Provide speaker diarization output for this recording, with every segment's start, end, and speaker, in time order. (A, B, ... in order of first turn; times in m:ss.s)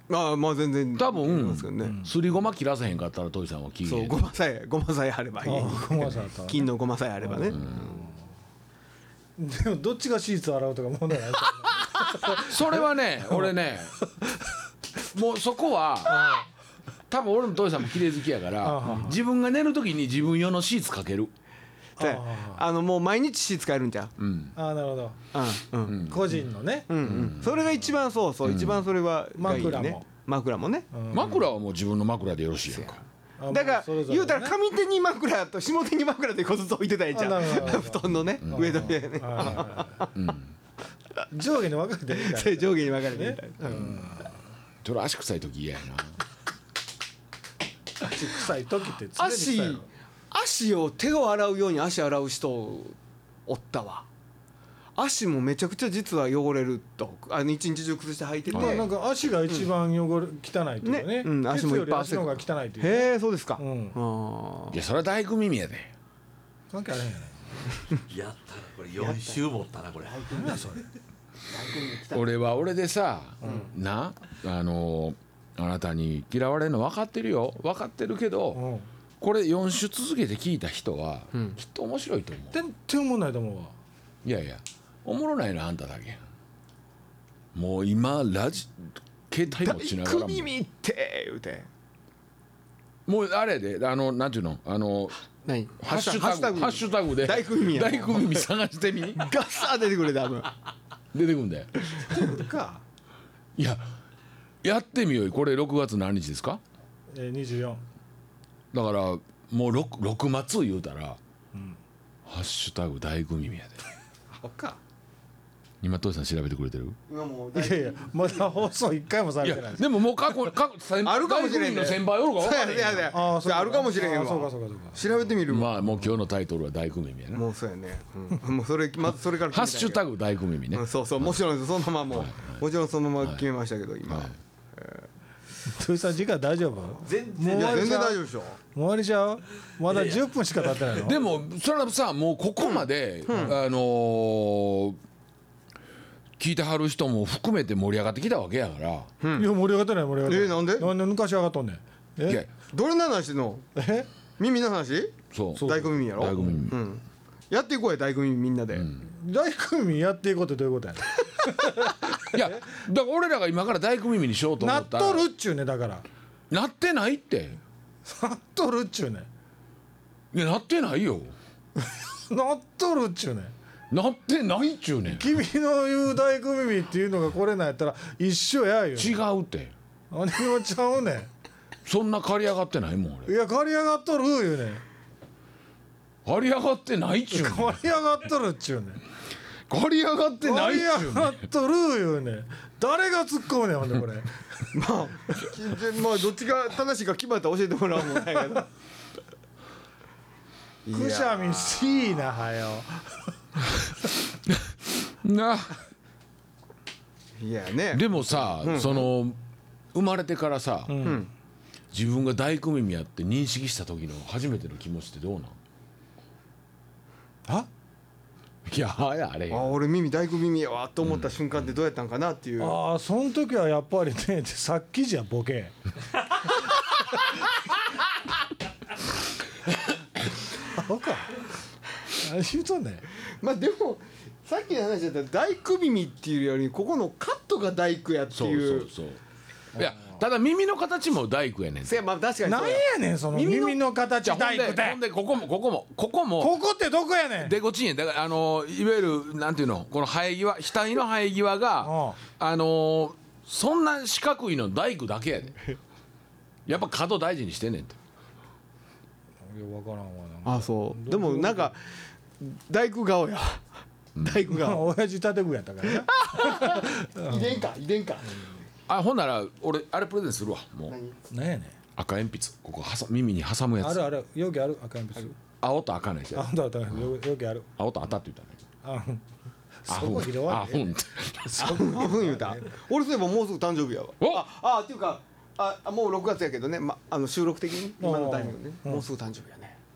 0:00.1-0:02.0 A
0:01.0-0:04.2 B
0:03.8-0:08.0 A
0:05.4-0:06.7 C
0:07.2-0:08.2 C
0:07.5-0:07.8 B
0:09.4-0:13.5 C
0:12.3-0:13.9 B
0:14.0-0:14.3 C
0:15.1-0:16.4 B
0:16.1-0:16.5 C
0:17.1-0:21.3 B
0:18.6-0:19.2 C
0:22.0-0:22.6 C
0:22.0-0:24.1 A
0:24.2-0:24.6 B
0:24.6-0:25.2 C
0:25.3-0:26.1 A
0:25.9-0:26.3 B
0:26.0-0:26.9 C
0:26.9-0:30.9 A
0:27.0-0:27.4 B
0:28.4-0:28.8 B
0:29.4-0:30.0 C
0:30.9-0:31.4 C
0:31.1-0:33.0 B
0:32.7-0:40.2 A
0:33.4-0:34.6 C
0:37.1-0:40.0 C
0:40.2-0:40.5 B
0:41.3-0:44.3 C
0:42.2-0:44.1 A
0:44.8-0:46.2 B
0:48.0-0:49.8 C
0:49.2-0:53.0 A
0:53.5-0:54.1 A
0:55.0-0:58.9 A
0:58.5-1:04.0 C
0:58.5-0:58.8 B
1:00.8-1:04.8 A
1:04.7-1:05.9 B
1:06.7-1:07.4 C
1:08.1-1:10.7 D
1:09.0-1:09.4 A
1:10.1-1:10.6 A
1:10.3-1:10.8 C
1:11.5-1:12.3 A
1:12.1-1:18.6 B
1:13.4-1:13.7 A
1:18.5-1:18.9 C
1:19.2-1:22.6 B
1:21.3-1:21.6 A
1:22.5-1:23.8 C
1:24.2-1:26.2 B
1:27.5-1:30.5 B
1:29.5-1:31.7 A
1:33.1-1:35.2 B
1:35.4-1:38.5 A
1:35.8-1:39.3 B
1:39.2-1:40.5 A
1:41.1-1:41.7 B
1:41.9-1:42.2 A
1:42.1-1:42.8 C
1:43.6-1:43.9 B
1:44.6-1:46.6 B
1:47.1-1:47.8 C
1:48.7-1:51.2 B
1:52.3-1:53.8 B
1:54.4-1:54.8 C
1:55.8-1:57.0 B
1:57.1-1:58.5 A
1:57.6-1:59.9 C
1:59.4-2:03.1 B
2:01.0-2:05.8 A
2:03.1-2:05.0 C
2:05.5-2:07.4 B
2:07.3-2:10.0 A
2:09.5-2:11.4 B
2:10.7-2:15.0 A
2:12.1-2:12.6 B
2:14.1-2:14.4 B
2:15.7-2:18.2 C
2:17.0-2:18.0 D
2:17.5-2:18.6 A
2:18.7-2:21.2 C
2:19.9-2:20.2 D
2:21.0-2:25.0 B
2:22.6-2:23.6 A
2:26.4-2:29.1 B
2:29.2-2:29.5 A
2:29.4-2:32.4 C
2:30.3-2:30.9 A
2:32.7-2:33.7 A
2:33.8-2:34.1 C
2:34.4-2:38.9 A
2:35.3-2:36.8 B
2:35.6-2:35.9 C
2:38.8-2:39.0 B
2:39.0-2:42.6 C
2:42.2-2:45.3 B
2:44.6-2:46.0 C
2:46.5-2:47.6 B
2:48.1-2:49.3 C
2:50.3-2:51.3 B
2:52.3-2:53.5 C
2:53.9-2:55.3 B
2:55.1-2:59.2 C
2:59.0-2:59.7 B
3:00.1-3:01.3 C
3:01.9-3:03.3 B
3:03.3-3:04.8 C
3:06.2-3:07.8 B
3:07.3-3:09.0 C
3:09.7-3:11.4 B
3:10.4-3:14.3 C
3:14.7-3:18.7 A
3:20.8-3:22.2 A
3:20.9-3:23.2 C
3:24.5-3:25.8 B
3:27.4-3:29.1 A
3:27.9-3:29.4 B
3:29.9-3:31.1 B
3:30.9-3:31.3 C
3:31.0-3:31.3 A
3:31.9-3:35.6 B
3:38.7-3:39.7 B
3:39.5-3:42.8 A
3:42.6-3:45.7 C
3:50.7-3:51.4 C
3:52.1-3:53.1 C
3:53.4-3:58.9 A
3:58.3-3:59.2 B
3:59.8-4:02.0 B
4:01.8-4:02.9 A
4:02.4-4:05.0 C
4:03.3-4:06.6 B
4:06.4-4:07.6 C
4:07.4-4:15.6 B
4:11.8-4:12.2 C
4:16.7-4:18.0 B
4:19.4-4:21.7 C
4:20.4-4:21.8 A
4:22.4-4:23.7 A
4:24.2-4:24.9 A
4:24.5-4:27.7 C
4:26.0-4:28.5 A
4:28.9-4:31.0 B
4:30.9-4:31.2 A
4:31.3-4:31.8 C
4:32.0-4:34.0 B
4:33.8-4:35.4 C
4:35.6-4:37.1 B
4:36.3-4:37.7 C
4:37.8-4:38.6 B
4:38.8-4:39.2 C
4:39.8-4:40.9 C
4:39.9-4:41.9 B
4:41.6-4:42.7 C
4:41.6-4:49.8 A
4:48.0-4:49.0 C